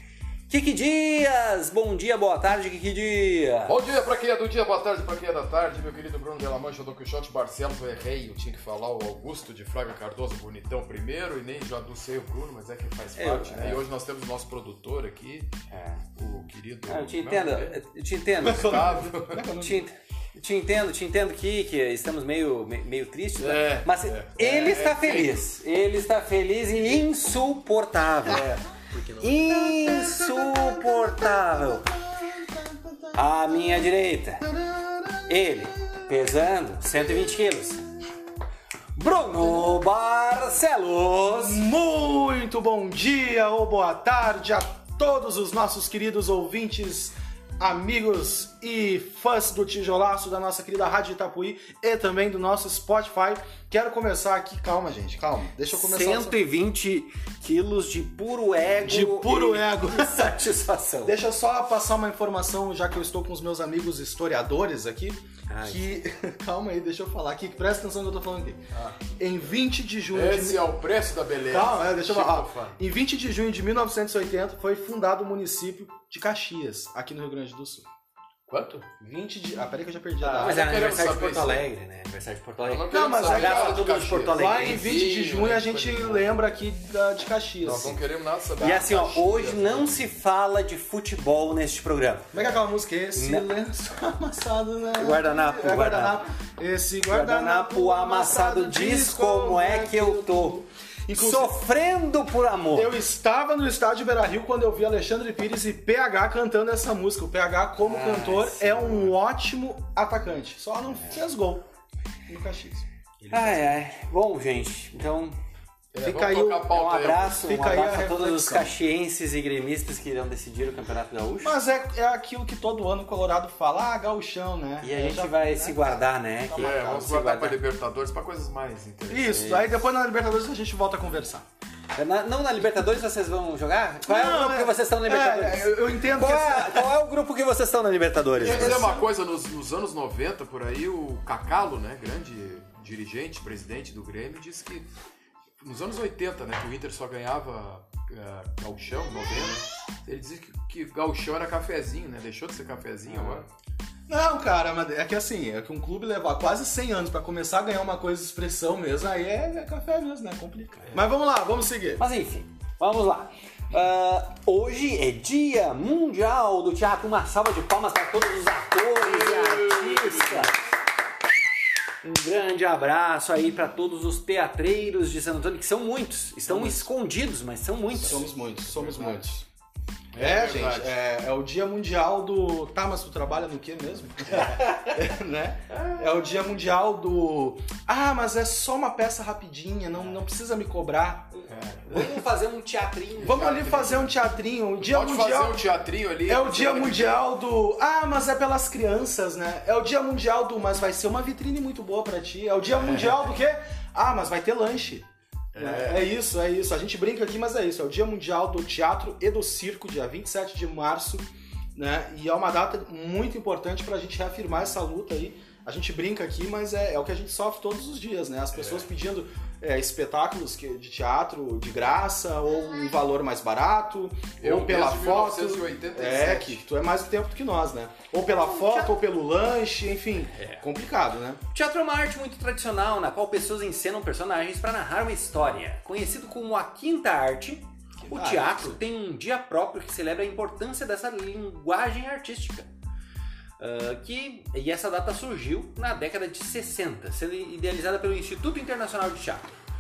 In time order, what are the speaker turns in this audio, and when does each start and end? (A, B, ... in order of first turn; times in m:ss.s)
0:00.5-0:03.8 A
0:03.7-0:15.5 B
0:13.2-0:13.8 A
0:15.7-0:16.0 A
0:16.2-0:17.8 B
0:16.9-0:19.0 A
0:18.4-0:19.8 C
0:18.4-0:19.5 B
0:19.6-0:28.4 A
0:23.4-0:25.5 B
0:28.3-0:29.6 B
0:29.2-0:32.0 A
0:29.8-0:31.5 C
0:32.2-0:33.4 C
0:33.1-0:34.5 A
0:34.5-0:35.3 C
0:35.3-0:37.8 A
0:39.0-0:41.6 A
0:41.3-0:56.4 C
0:55.7-1:01.2 A
0:58.8-1:00.4 C
1:01.0-1:08.6 C
1:05.5-1:06.0 A
1:08.7-1:09.0 B
1:09.2-1:10.7 C
1:10.1-1:12.8 B
1:11.5-1:17.8 C
1:18.5-1:18.9 B
1:19.0-1:20.8 C
1:20.2-1:25.0 A
1:20.4-1:21.6 B
1:22.6-1:26.3 B
1:22.9-1:28.0 C
1:27.6-1:30.0 B
1:28.6-1:32.5 A
1:32.3-1:41.6 C
1:33.2-1:33.5 A
1:35.0-1:36.2 A
1:37.1-1:40.6 A
1:41.1-1:43.0 A
1:42.7-1:51.7 C
1:47.9-1:49.2 A
1:52.3-1:53.7 C
1:53.3-1:55.4 A
1:55.9-1:57.5 B
1:56.0-1:56.8 C
1:56.7-2:01.6 A
1:57.4-1:58.8 C
2:01.4-2:07.3 C
2:04.8-2:07.6 A
2:06.6-2:09.7 B
2:09.1-2:11.4 C
2:09.3-2:09.7 A
2:12.0-2:18.8 A
2:14.1-2:17.0 C
2:18.4-2:19.1 C
2:18.4-2:24.9 B
2:25.6-2:33.5 B
2:33.1-2:33.4 A
2:34.1-2:42.0 C
2:42.0-2:50.6 A
2:49.0-2:50.5 B
2:52.0-2:58.3 A
2:56.5-2:56.9 C
2:57.9-2:59.5 C
2:58.7-2:59.2 B
3:00.1-3:01.0 B
3:00.1-3:11.4 C
3:04.4-3:04.8 A
3:11.5-3:12.1 B
3:11.9-3:13.7 A
3:13.2-3:15.6 C
3:13.2-3:14.2 B
3:14.8-3:17.2 B
3:16.3-3:51.4 C
3:22.8-3:23.2 B
3:25.6-3:26.1 B
3:38.6-3:38.9 B
3:44.4-3:46.6 B
3:48.6-3:48.9 A
3:50.3-3:50.6 A
3:51.5-4:02.7 A
3:58.0-3:58.8 C
4:03.6-4:09.6 A